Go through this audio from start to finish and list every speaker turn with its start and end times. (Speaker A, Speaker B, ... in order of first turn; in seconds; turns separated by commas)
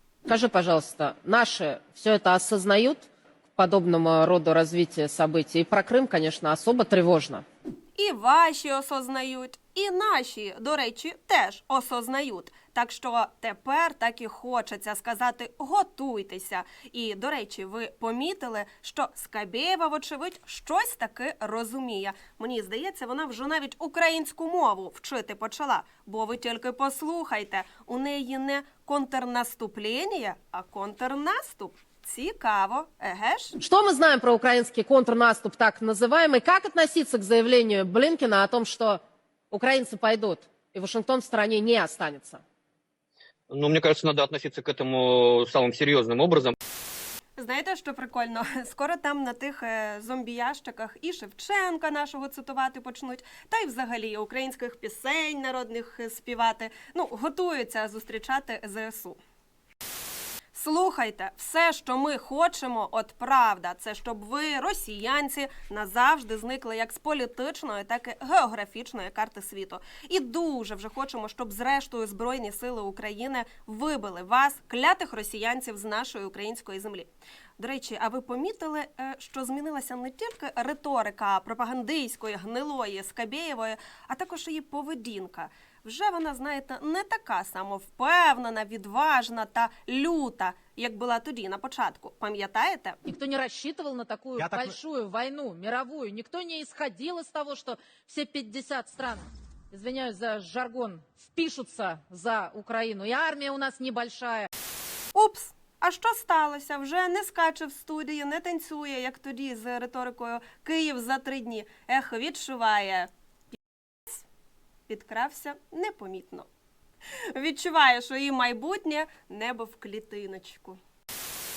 Speaker A: 0.3-7.5, Speaker B: 8.0-33.6, Speaker A: 33.6-39.0, Speaker A: 39.5-42.4, Speaker C: 43.5-46.5, Speaker B: 47.4-59.2, Speaker B: 60.5-93.0, Speaker A: 93.0-104.5, Speaker B: 105.1-113.1, Speaker B: 114.9-116.5, Speaker B: 117.1-120.8